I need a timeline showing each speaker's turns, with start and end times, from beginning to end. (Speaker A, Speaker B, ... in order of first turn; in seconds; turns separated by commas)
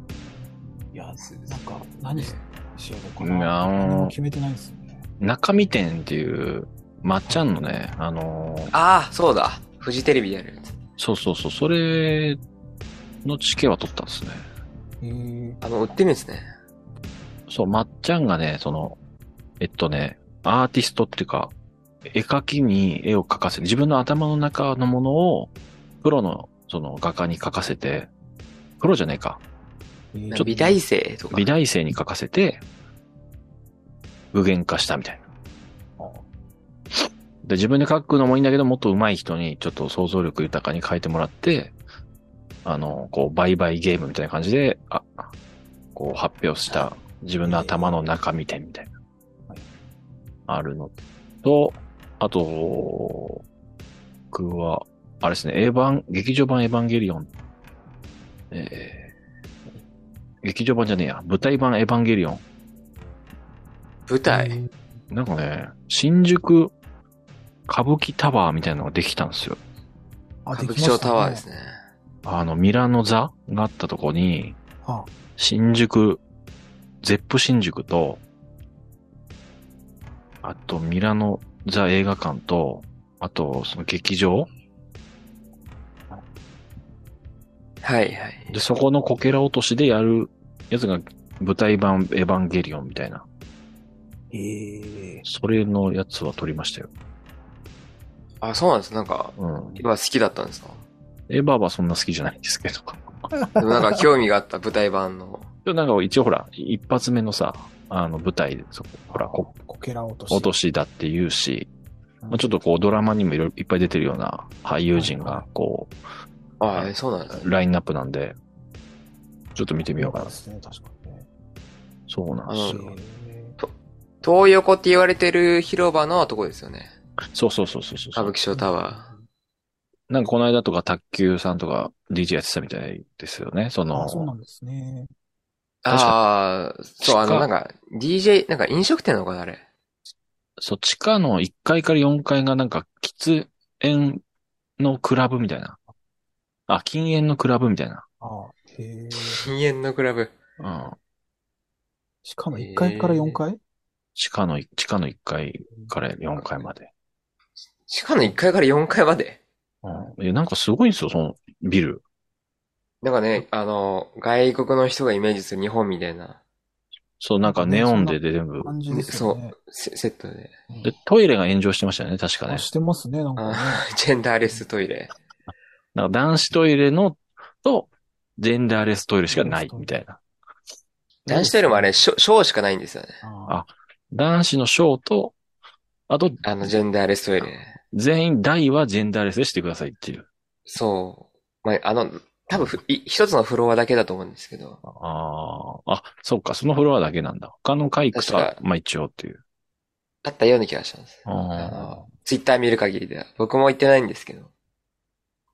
Speaker A: 0.9-5.0, Speaker B: 1.2-2.4, Speaker C: 3.2-4.1, Speaker C: 5.2-8.7, Speaker B: 8.7-10.8, Speaker C: 11.0-12.4, Speaker C: 13.2-14.4, Speaker A: 15.0-15.6, Speaker B: 15.6-16.5, Speaker C: 17.5-19.0, Speaker C: 19.6-21.5, Speaker C: 22.1-28.1, Speaker C: 28.8-29.4, Speaker A: 30.1-30.8, Speaker B: 30.4-31.5, Speaker C: 31.3-32.6, Speaker C: 34.3-35.2, Speaker C: 37.4-41.7, Speaker C: 42.6-45.3, Speaker C: 45.9-48.9, Speaker A: 47.4-48.0, Speaker C: 50.5-53.4, Speaker C: 54.3-57.3, Speaker C: 58.5-59.1, Speaker C: 60.4-62.4, Speaker B: 64.1-64.6, Speaker A: 64.2-64.7, Speaker C: 65.1-66.7, Speaker C: 67.7-69.6, Speaker A: 70.5-71.4, Speaker B: 70.5-71.7, Speaker C: 72.2-74.6, Speaker A: 74.8-75.1, Speaker C: 75.4-76.2, Speaker C: 77.0-78.2, Speaker C: 80.4-84.5, Speaker B: 87.8-88.5, Speaker C: 88.5-93.2, Speaker A: 94.3-95.2, Speaker C: 95.2-96.9, Speaker B: 98.4-100.8, Speaker C: 99.4-99.8, Speaker C: 101.3-103.0, Speaker A: 103.3-103.8, Speaker B: 103.6-105.5, Speaker C: 105.6-109.5, Speaker A: 109.1-110.5, Speaker C: 110.3-111.7, Speaker A: 112.2-112.5, Speaker C: 112.3-115.9, Speaker A: 114.9-115.5, Speaker B: 116.6-117.5, Speaker C: 116.7-118.3, Speaker C: 119.5-120.3, Speaker A: 120.0-121.3, Speaker C: 122.1-122.8, Speaker B: 122.5-122.9, Speaker A: 122.7-123.6, Speaker B: 124.2-126.9, Speaker C: 127.3-128.3, Speaker B: 128.1-129.1, Speaker A: 128.5-129.2, Speaker C: 130.1-134.3, Speaker A: 133.9-135.1, Speaker B: 135.8-139.7, Speaker C: 135.9-136.2, Speaker C: 137.0-137.5, Speaker C: 140.6-144.2, Speaker C: 144.8-145.8, Speaker C: 146.7-148.1, Speaker A: 148.2-149.5, Speaker B: 149.1-150.3, Speaker C: 150.6-151.0, Speaker A: 152.2-153.6, Speaker B: 152.5-153.4, Speaker C: 154.2-156.9, Speaker B: 156.4-156.6, Speaker B: 157.9-159.4, Speaker C: 159.8-162.0, Speaker B: 163.0-166.4, Speaker C: 167.2-168.7, Speaker A: 167.4-169.5, Speaker B: 168.9-170.6, Speaker C: 170.8-172.7, Speaker A: 172.5-173.8, Speaker B: 173.4-175.2, Speaker C: 175.9-180.2, Speaker A: 179.3-179.9, Speaker A: 181.2-181.9, Speaker B: 181.3-183.2, Speaker A: 183.2-183.6, Speaker C: 183.5-185.3, Speaker C: 186.1-186.7, Speaker B: 186.4-187.8, Speaker C: 187.9-190.3, Speaker B: 190.7-194.8, Speaker C: 194.8-199.4, Speaker B: 198.1-198.6, Speaker B: 200.2-204.5, Speaker C: 201.2-202.1